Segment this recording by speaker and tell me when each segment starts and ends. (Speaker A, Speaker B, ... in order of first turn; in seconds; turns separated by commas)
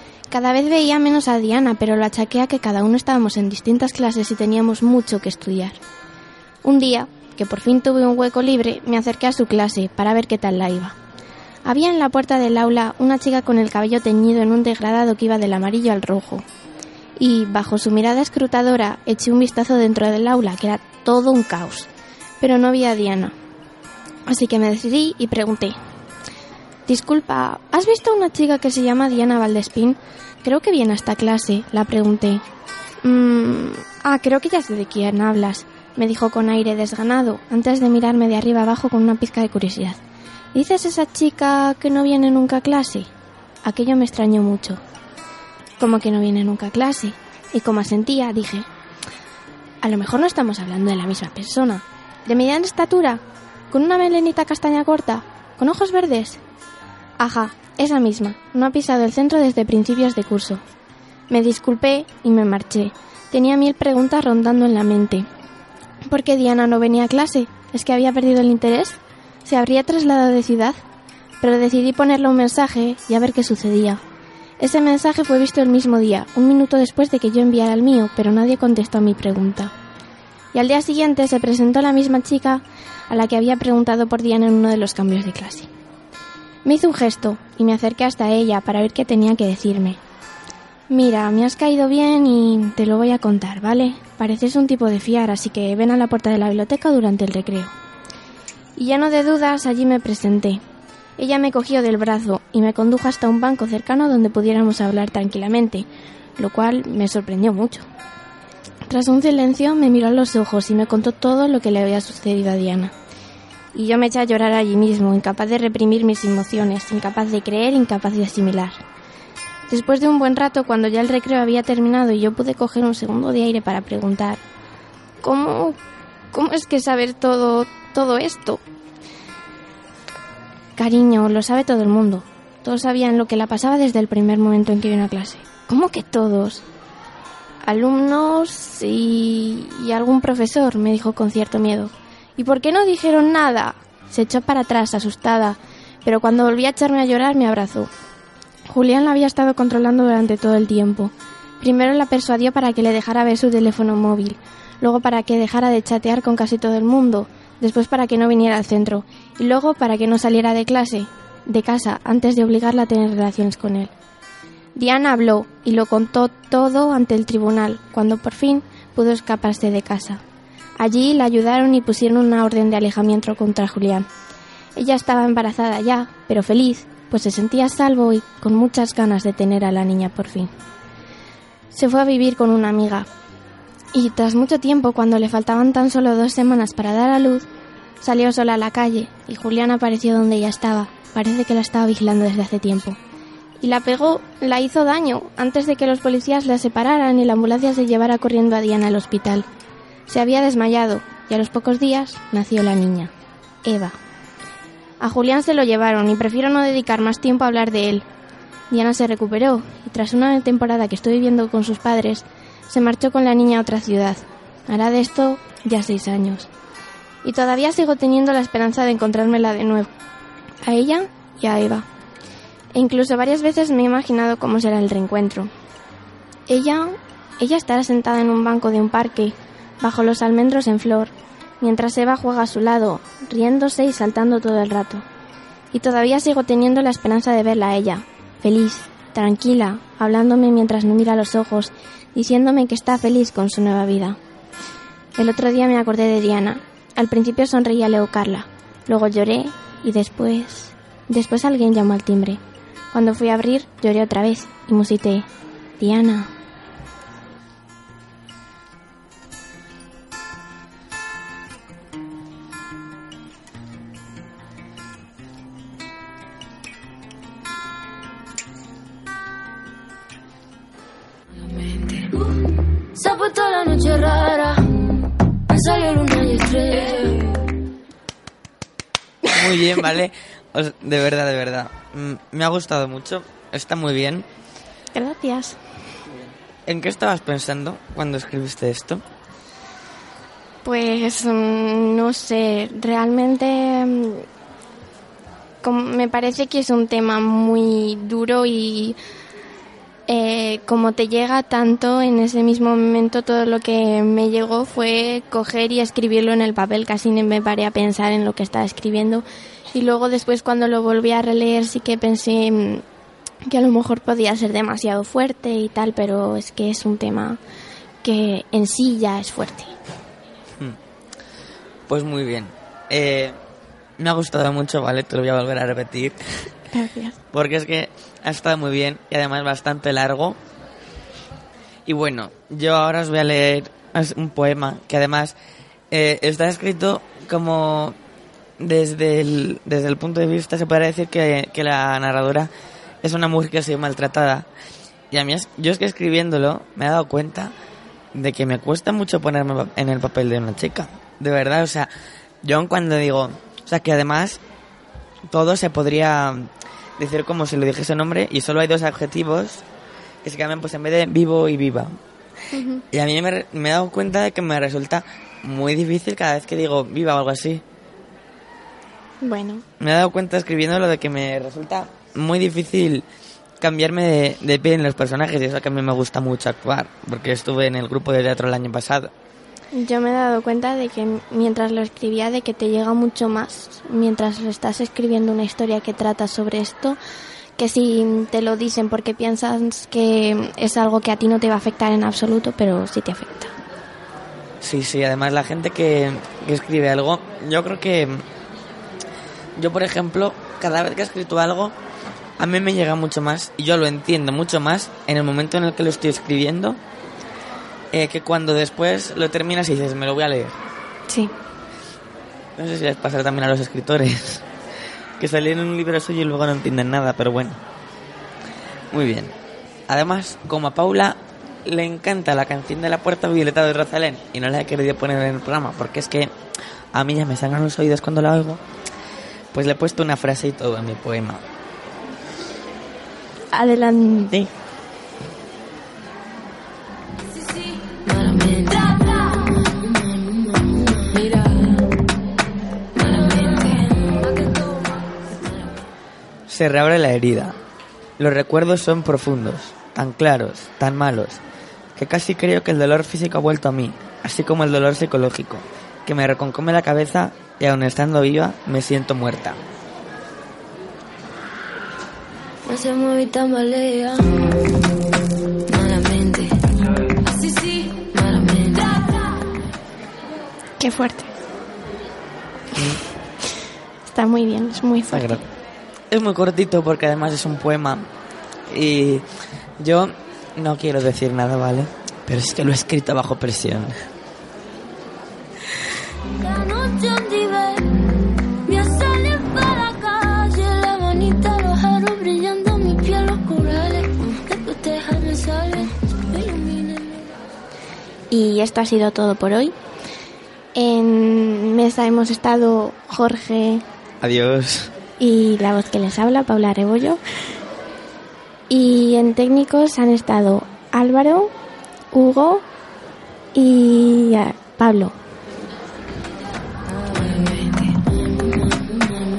Speaker A: 0.3-5.8, Speaker A: 6.6-10.9, Speaker A: 11.6-16.4, Speaker A: 17.2-21.9, Speaker A: 22.4-23.3, Speaker A: 24.3-25.8, Speaker A: 26.9-32.4, Speaker A: 33.0-40.0, Speaker A: 40.5-43.1, Speaker A: 43.6-44.8, Speaker A: 45.8-48.7, Speaker A: 49.8-56.4, Speaker A: 57.2-60.6, Speaker A: 61.3-65.3, Speaker A: 66.1-70.8, Speaker A: 71.4-74.0, Speaker A: 74.6-79.7, Speaker A: 80.5-85.7, Speaker A: 86.6-90.0, Speaker A: 90.9-97.7, Speaker A: 98.8-100.6, Speaker A: 101.2-105.8, Speaker A: 106.4-107.8, Speaker A: 108.9-112.9, Speaker A: 113.7-118.8, Speaker A: 119.7-124.4, Speaker A: 125.2-125.8, Speaker A: 126.3-128.6, Speaker A: 130.8-136.6, Speaker A: 137.6-147.9, Speaker A: 148.7-163.9, Speaker A: 164.7-170.2, Speaker A: 170.8-174.1, Speaker A: 174.8-180.5, Speaker A: 181.7-183.1, Speaker A: 183.9-187.4, Speaker A: 188.0-193.0, Speaker A: 193.6-199.4, Speaker A: 200.1-203.1, Speaker A: 203.6-203.9, Speaker A: 205.0-208.1, Speaker A: 208.7-216.5, Speaker A: 217.2-219.9, Speaker A: 220.6-221.8, Speaker A: 222.7-225.5, Speaker A: 226.5-235.0, Speaker A: 235.7-244.2, Speaker A: 245.2-252.4, Speaker A: 252.9-255.3, Speaker A: 255.8-256.3, Speaker B: 271.7-272.4, Speaker B: 272.9-274.8, Speaker B: 275.5-277.4, Speaker C: 279.3-284.2, Speaker A: 284.9-285.6, Speaker C: 286.6-289.0, Speaker A: 290.6-294.2, Speaker A: 295.6-299.0, Speaker A: 300.1-312.8, Speaker A: 313.4-317.4, Speaker A: 318.0-319.7, Speaker C: 321.9-323.4, Speaker C: 324.0-326.2, Speaker A: 326.7-327.2, Speaker C: 327.3-330.4, Speaker C: 331.9-335.4, Speaker C: 335.9-337.9, Speaker C: 338.6-342.5, Speaker C: 343.0-344.5, Speaker C: 345.1-347.5, Speaker C: 348.1-351.9, Speaker C: 352.4-354.4, Speaker C: 355.3-359.6, Speaker C: 360.2-361.9, Speaker A: 362.5-362.8, Speaker C: 362.9-367.6, Speaker A: 369.2-369.6, Speaker C: 369.8-373.1, Speaker C: 373.6-379.1, Speaker A: 379.7-387.0, Speaker A: 387.6-393.5, Speaker C: 394.6-398.2, Speaker C: 399.6-401.7, Speaker C: 402.4-406.8, Speaker C: 407.9-410.6, Speaker C: 412.6-414.4, Speaker C: 415.2-417.6, Speaker C: 418.9-419.3, Speaker C: 419.9-426.3, Speaker C: 426.9-428.6, Speaker C: 429.5-431.4, Speaker A: 433.5-434.5, Speaker B: 437.8-439.7, Speaker B: 441.0-441.8, Speaker B: 443.0-445.0, Speaker C: 446.5-447.6, Speaker C: 448.2-451.4, Speaker C: 451.9-459.6, Speaker B: 462.6-464.6, Speaker B: 465.7-466.6, Speaker B: 467.2-469.2, Speaker A: 470.8-471.3, Speaker C: 472.7-473.0, Speaker A: 474.1-475.4, Speaker C: 475.1-475.4, Speaker C: 476.1-478.1, Speaker C: 478.7-479.3, Speaker C: 479.8-483.9, Speaker B: 486.4-497.3, Speaker A: 498.3-499.7, Speaker A: 500.7-503.8, Speaker C: 504.2-504.9, Speaker A: 505.2-507.2, Speaker A: 508.7-511.5, Speaker A: 512.1-512.6, Speaker A: 513.5-515.1, Speaker B: 517.1-518.0